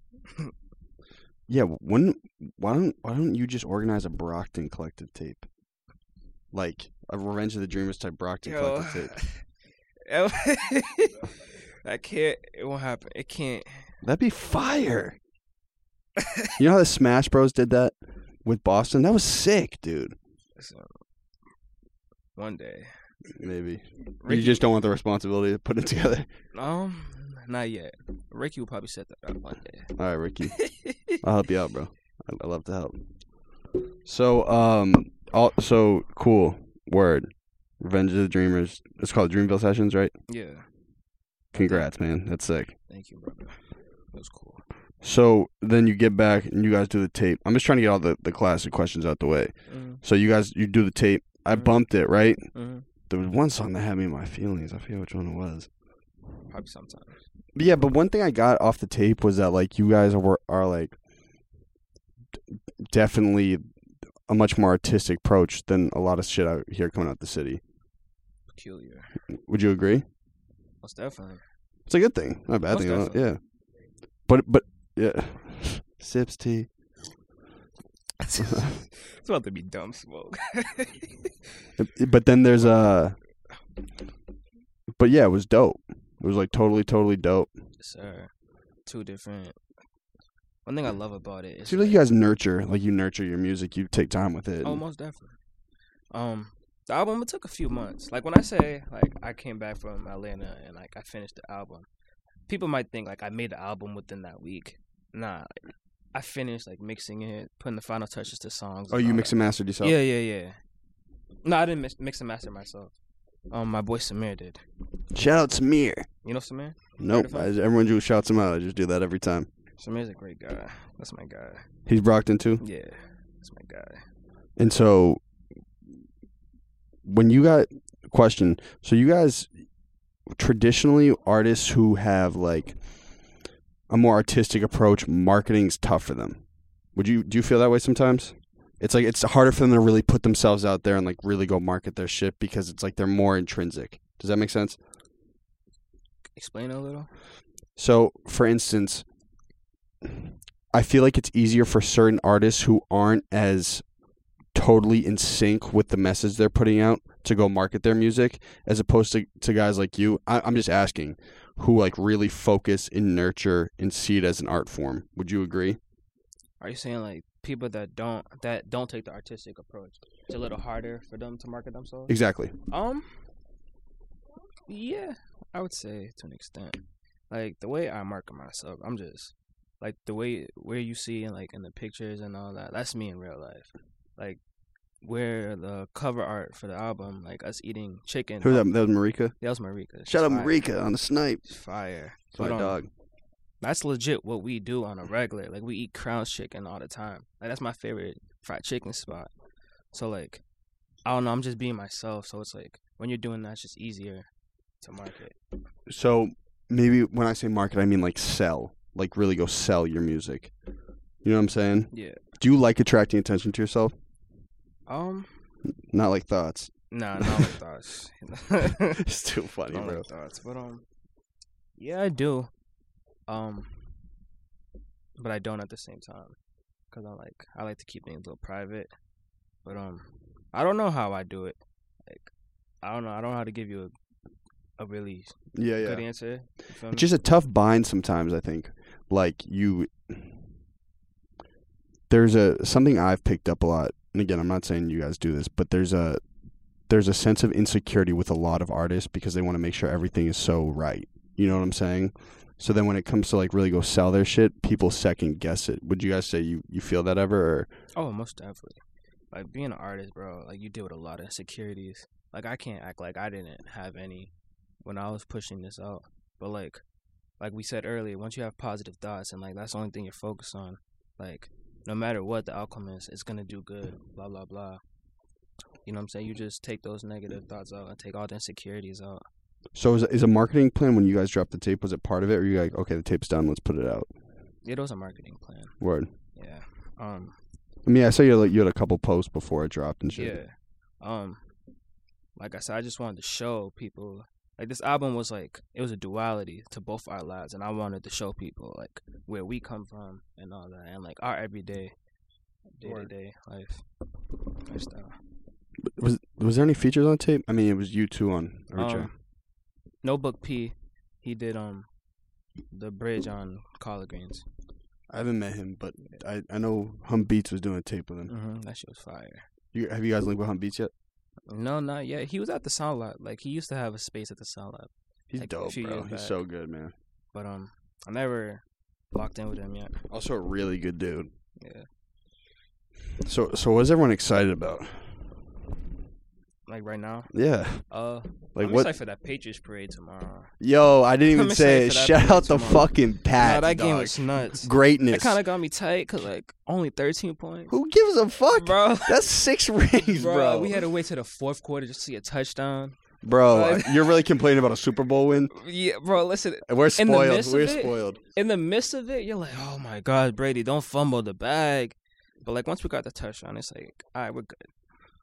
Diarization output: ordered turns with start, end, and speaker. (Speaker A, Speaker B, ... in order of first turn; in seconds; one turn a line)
Speaker A: 1.5-5.4
Speaker A: 6.5-9.1
Speaker B: 8.4-9.4
Speaker B: 10.1-11.3
Speaker B: 11.8-13.9
Speaker A: 14.0-15.2
Speaker B: 16.2-16.5
Speaker A: 16.6-20.1
Speaker B: 20.6-20.9
Speaker B: 22.4-22.9
Speaker A: 23.4-26.3
Speaker B: 24.2-24.6
Speaker B: 26.5-29.9
Speaker A: 29.9-33.0
Speaker B: 30.6-31.1
Speaker A: 34.0-40.1
Speaker B: 40.3-40.6
Speaker A: 41.5-42.7
Speaker B: 41.6-41.9
Speaker B: 42.9-43.6
Speaker B: 44.1-44.6
Speaker A: 45.0-52.5
Speaker B: 49.7-50.0
Speaker B: 52.5-52.8
Speaker A: 53.1-55.7
Speaker B: 56.5-57.2
Speaker A: 57.5-61.0
Speaker A: 62.9-63.6
Speaker A: 64.3-67.6
Speaker B: 68.5-69.2
Speaker A: 69.5-70.0
Speaker B: 70.8-71.4
Speaker A: 71.9-73.4
Speaker B: 72.7-73.3
Speaker A: 74.3-76.7
Speaker B: 78.2-81.3
Speaker A: 81.8-83.2
Speaker A: 85.0-87.5
Speaker B: 87.8-88.3
Speaker B: 88.8-89.6
Speaker B: 90.6-92.0
Speaker A: 91.7-94.8
Speaker B: 94.6-95.4
Speaker B: 96.1-101.9
Speaker B: 102.5-105.6
Speaker B: 106.1-110.6
Speaker A: 108.9-109.9
Speaker B: 111.4-112.9
Speaker B: 113.5-114.6
Speaker A: 115.1-116.1
Speaker B: 116.2-117.5
Speaker A: 117.0-119.5
Speaker B: 119.8-121.7
Speaker A: 121.8-122.6
Speaker B: 122.6-124.0
Speaker A: 124.6-125.2
Speaker A: 127.0-129.5
Speaker A: 130.3-132.8
Speaker A: 133.9-136.4
Speaker A: 136.9-144.8
Speaker B: 146.3-147.1
Speaker A: 147.8-149.0
Speaker A: 150.7-153.8
Speaker A: 154.5-165.8
Speaker B: 166.6-172.2
Speaker A: 172.1-172.5
Speaker B: 172.7-173.2
Speaker B: 174.7-184.4
Speaker B: 185.0-188.7
Speaker A: 188.4-189.3
Speaker B: 189.4-190.6
Speaker A: 190.1-191.4
Speaker B: 191.4-192.8
Speaker A: 192.3-192.9
Speaker B: 193.6-199.3
Speaker B: 199.9-200.4
Speaker B: 201.0-204.3
Speaker B: 204.8-205.4
Speaker A: 205.9-210.5
Speaker A: 211.2-213.9
Speaker B: 211.9-212.2
Speaker B: 214.9-215.3
Speaker A: 215.9-217.5
Speaker B: 216.9-219.0
Speaker A: 218.9-220.0
Speaker B: 219.7-220.8
Speaker B: 221.8-222.5
Speaker B: 223.3-223.8
Speaker B: 225.2-226.3
Speaker B: 226.9-228.9
Speaker B: 229.6-232.3
Speaker B: 232.8-233.9
Speaker B: 234.8-237.2
Speaker A: 235.5-236.0
Speaker A: 236.9-240.3
Speaker A: 242.1-246.2
Speaker A: 246.9-257.7
Speaker B: 257.9-258.8
Speaker B: 259.3-264.3
Speaker B: 264.8-266.8
Speaker B: 267.4-274.8
Speaker B: 275.8-279.2
Speaker A: 279.7-284.1
Speaker B: 284.6-285.8
Speaker A: 285.8-286.1
Speaker B: 286.3-287.4
Speaker A: 287.8-290.4
Speaker B: 290.1-291.4
Speaker B: 292.4-301.9
Speaker B: 302.8-303.8
Speaker B: 304.6-305.2
Speaker A: 305.9-309.1
Speaker B: 308.7-309.2
Speaker B: 310.0-311.9
Speaker B: 312.7-314.4
Speaker A: 315.1-318.3
Speaker B: 318.3-319.4
Speaker A: 319.7-320.9
Speaker B: 321.5-326.4
Speaker A: 325.3-326.9
Speaker B: 327.3-330.0
Speaker A: 330.1-331.3
Speaker B: 331.6-331.9
Speaker A: 333.2-335.1
Speaker B: 336.7-337.3
Speaker A: 337.3-337.8
Speaker B: 337.8-340.5
Speaker A: 338.5-338.9
Speaker A: 340.6-345.4
Speaker B: 341.3-347.7
Speaker A: 347.7-350.8
Speaker B: 348.5-349.3
Speaker B: 350.1-354.2
Speaker A: 353.2-355.5
Speaker B: 355.5-364.6
Speaker A: 356.6-358.2